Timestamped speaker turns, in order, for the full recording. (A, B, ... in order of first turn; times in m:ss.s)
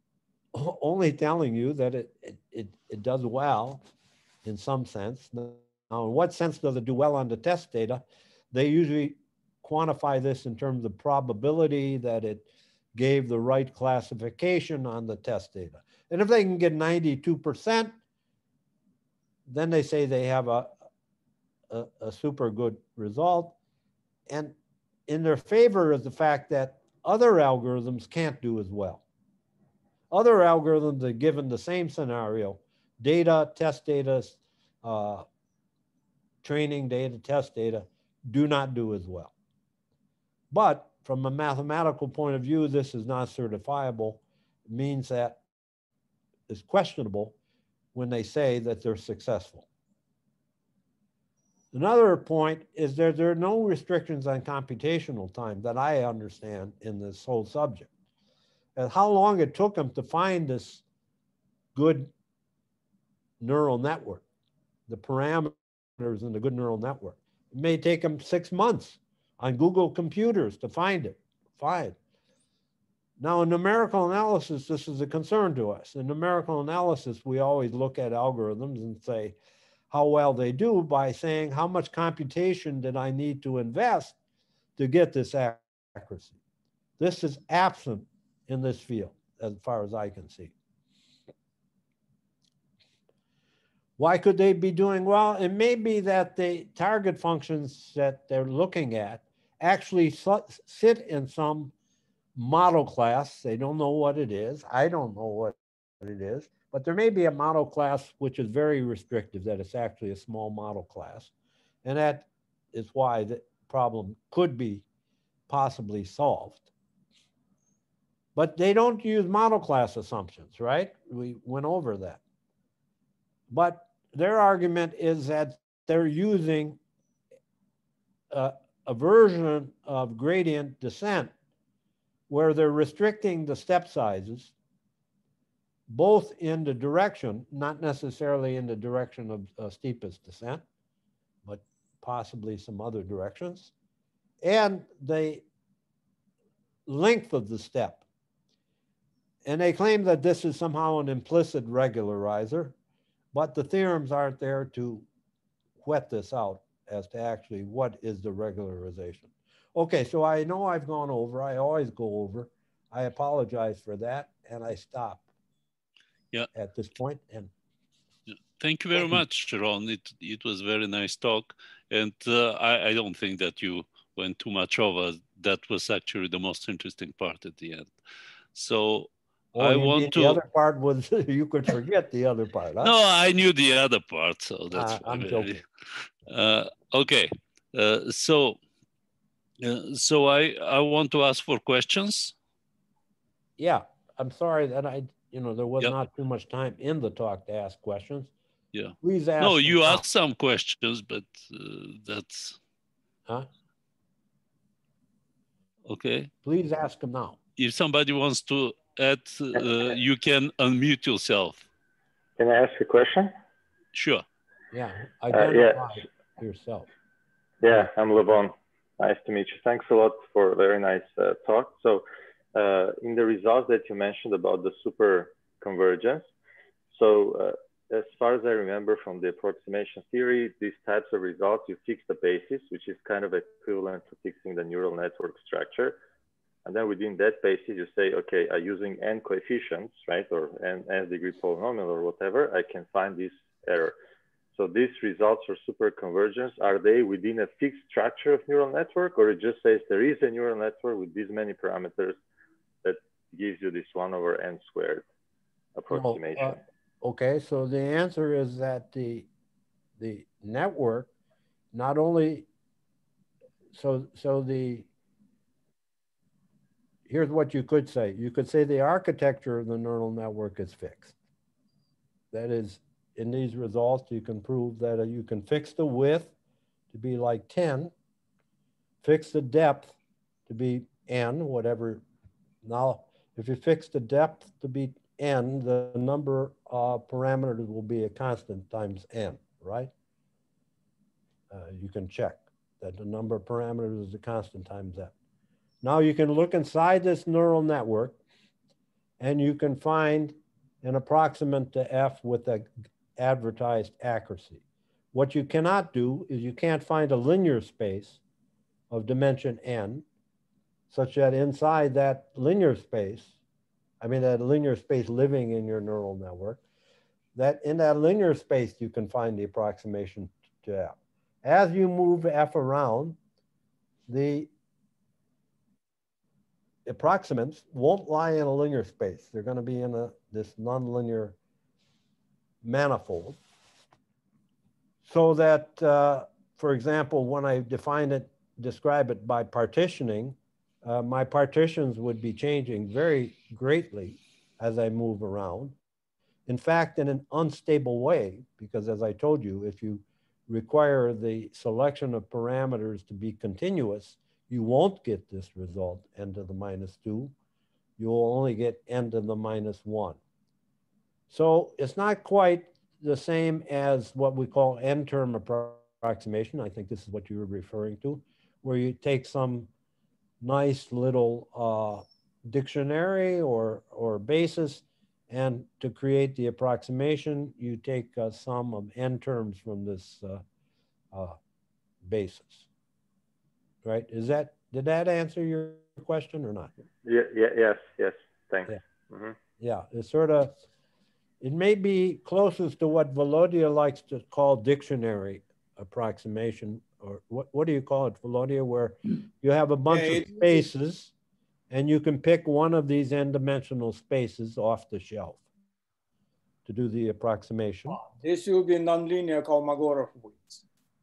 0:00.5-0:03.8 A
0:04.4-0:18.0 A
0:19.5-0:20.7 A
0:21.7-0:23.6 A
0:24.3-0:24.5 A
0:25.1-0:29.0 A
0:30.1-0:35.2 A
0:36.4-0:39.3 A
0:40.5-0:45.4 A
0:46.5-0:47.4 A
0:47.9-0:49.6 A
0:51.7-0:57.9 A
0:58.8-1:00.8 A
1:01.8-1:02.1 A
1:03.4-1:04.2 A
1:04.9-1:12.0 A
1:13.2-1:19.4 A
1:19.9-1:24.2 A
1:24.8-1:26.4 A
1:27.0-1:30.5 A
1:34.0-1:41.7 A
1:42.4-1:51.3 A
1:51.8-1:54.8 A
1:55.5-1:56.7 A
1:58.4-2:02.2 A
2:03.5-2:06.8 A
2:08.3-2:11.3 A
2:12.3-2:14.5 A
2:15.9-2:20.6 A
2:21.5-2:23.7 A
2:24.4-2:25.4 A
2:26.9-2:28.0 A
2:29.4-2:32.7 A
2:33.3-2:35.0 A
2:35.8-2:45.2 A
2:46.5-2:47.5 A
2:48.3-2:57.9 B
2:49.0-2:49.2 A
2:58.5-3:00.4 B
2:59.6-3:02.9 A
3:02.8-3:05.6 B
3:04.7-3:05.6 A
3:06.3-3:08.6 B
3:09.6-3:12.4 B
3:13.6-3:18.3 A
3:18.7-3:22.6 B
3:19.0-3:20.0 A
3:25.9-3:26.3 B
3:26.4-3:27.4 A
3:27.6-3:31.7 B
3:32.4-3:33.3 C
3:33.9-3:34.2 B
3:34.7-3:36.9 A
3:35.3-3:36.1 C
3:37.6-3:46.3 C
3:46.9-3:56.0 C
3:56.6-4:04.0 C
4:04.6-4:12.2 C
4:12.8-4:15.1 C
4:15.8-4:16.6 C
4:15.9-4:19.3 A
4:20.0-4:21.1 A
4:21.7-4:22.5 A
4:23.7-4:24.9 A
4:27.1-4:31.1 A
4:32.3-4:36.3 A
4:36.9-4:37.9 A
4:39.0-4:40.0 A
4:40.5-4:42.0 A
4:42.6-4:49.9 A
4:51.5-4:55.1 A
4:55.8-4:58.2 A
4:59.2-5:04.6 A
5:05.1-5:08.2 A
5:08.9-5:10.0 A
5:10.9-5:13.3 A
5:14.0-5:16.6 A
5:17.4-5:23.2 A
5:24.1-5:24.5 A
5:26.9-5:31.4 A
5:32.6-5:33.4 A
5:35.0-5:45.8 A
5:46.5-5:57.3 A
5:58.0-6:00.2 A
6:01.3-6:09.7 A
6:10.4-6:20.4 A
6:22.0-6:22.7 A
6:23.8-6:26.7 A
6:27.0-6:29.4 C
6:29.6-6:30.6 A
6:31.4-6:41.1 A
6:39.9-6:40.7 D
6:41.7-6:45.4 A
6:46.7-6:48.0 A
6:47.9-6:50.6 D